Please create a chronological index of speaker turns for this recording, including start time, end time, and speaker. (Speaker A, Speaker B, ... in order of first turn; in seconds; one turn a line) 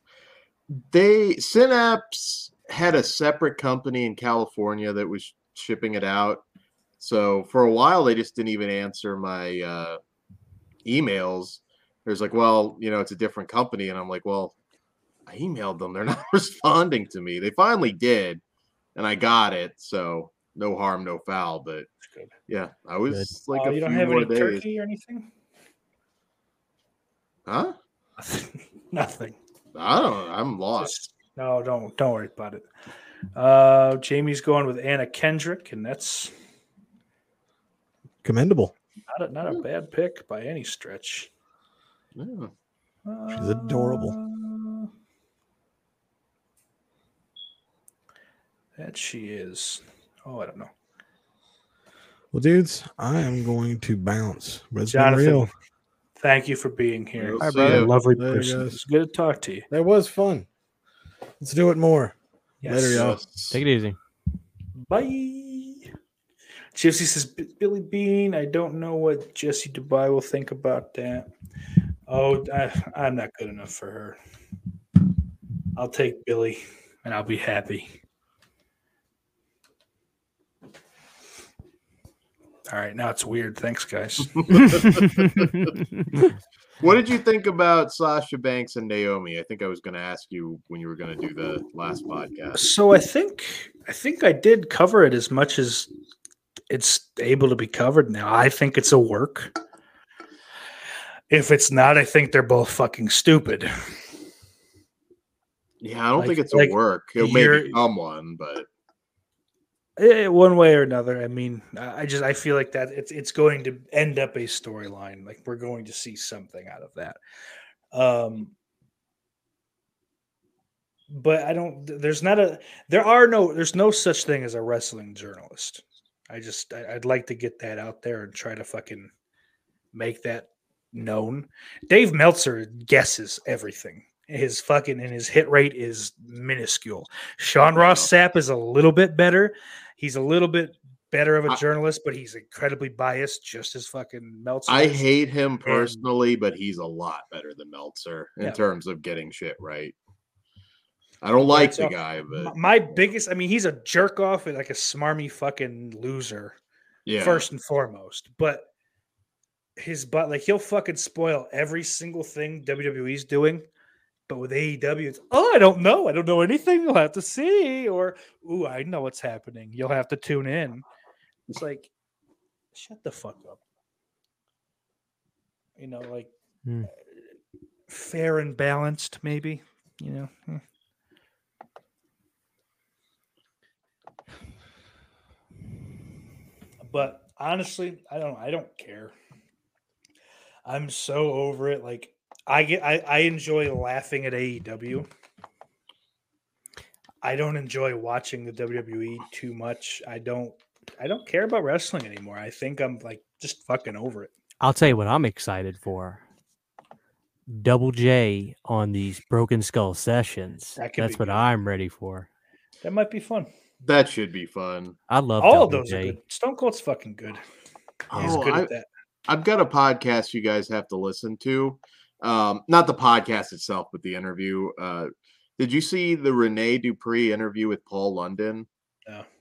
Speaker A: 0.8-6.4
Speaker A: 7.0-10.0
Speaker A: 10.8-14.6
Speaker A: 15.3-18.4
Speaker A: 18.9-21.9
Speaker B: 22.0-22.3
Speaker A: 22.5-24.6
Speaker B: 23.5-25.3
Speaker A: 27.5-27.8
Speaker B: 28.2-29.4
Speaker A: 29.7-30.9
Speaker B: 30.8-32.7
Speaker B: 33.4-36.3
Speaker C: 38.2-38.7
Speaker B: 39.1-41.3
Speaker A: 42.1-42.5
Speaker B: 43.1-44.9
Speaker C: 43.3-44.2
Speaker B: 48.8-50.7
Speaker C: 52.3-55.5
Speaker B: 54.9-55.5
Speaker B: 56.2-59.7
Speaker A: 57.2-57.9
Speaker D: 57.4-57.8
Speaker C: 57.7-58.8
Speaker C: 59.7-60.5
Speaker C: 61.4-63.2
Speaker B: 62.6-63.1
Speaker A: 62.9-63.6
Speaker D: 63.5-64.0
Speaker B: 64.8-65.9
Speaker B: 66.7-71.3
Speaker B: 72.1-74.2
Speaker B: 75.8-78.0
Speaker B: 82.7-84.7
Speaker A: 84.5-85.5
Speaker D: 84.7-86.3
Speaker A: 86.8-92.6
Speaker B: 92.5-95.9
Speaker B: 96.7-99.5
Speaker B: 101.3-103.7
Speaker A: 105.8-108.7
Speaker B: 106.2-107.8
Speaker B: 110.0-117.2
Speaker B: 117.9-118.5
Speaker B: 121.1-129.1
Speaker B: 129.9-145.1
Speaker A: 137.8-138.1
Speaker A: 144.7-149.9
Speaker B: 145.7-146.0
Speaker A: 151.2-152.6
Speaker B: 151.4-156.6
Speaker A: 157.1-157.5
Speaker B: 157.2-158.7
Speaker B: 159.8-163.7
Speaker B: 164.3-170.8
Speaker B: 171.5-171.9
Speaker B: 172.7-173.6
Speaker B: 175.8-176.3
Speaker D: 176.7-176.9
Speaker B: 177.9-180.6
Speaker B: 186.8-189.1
Speaker B: 190.7-195.1
Speaker B: 197.2-204.3
Speaker D: 204.6-206.2
Speaker D: 207.5-212.3
Speaker B: 210.8-211.5
Speaker B: 212.8-213.5
Speaker A: 213.8-215.0
Speaker D: 215.1-216.2
Speaker B: 215.4-217.4
Speaker D: 218.1-218.4
Speaker B: 218.1-218.9
Speaker A: 218.2-218.7
Speaker A: 219.3-228.7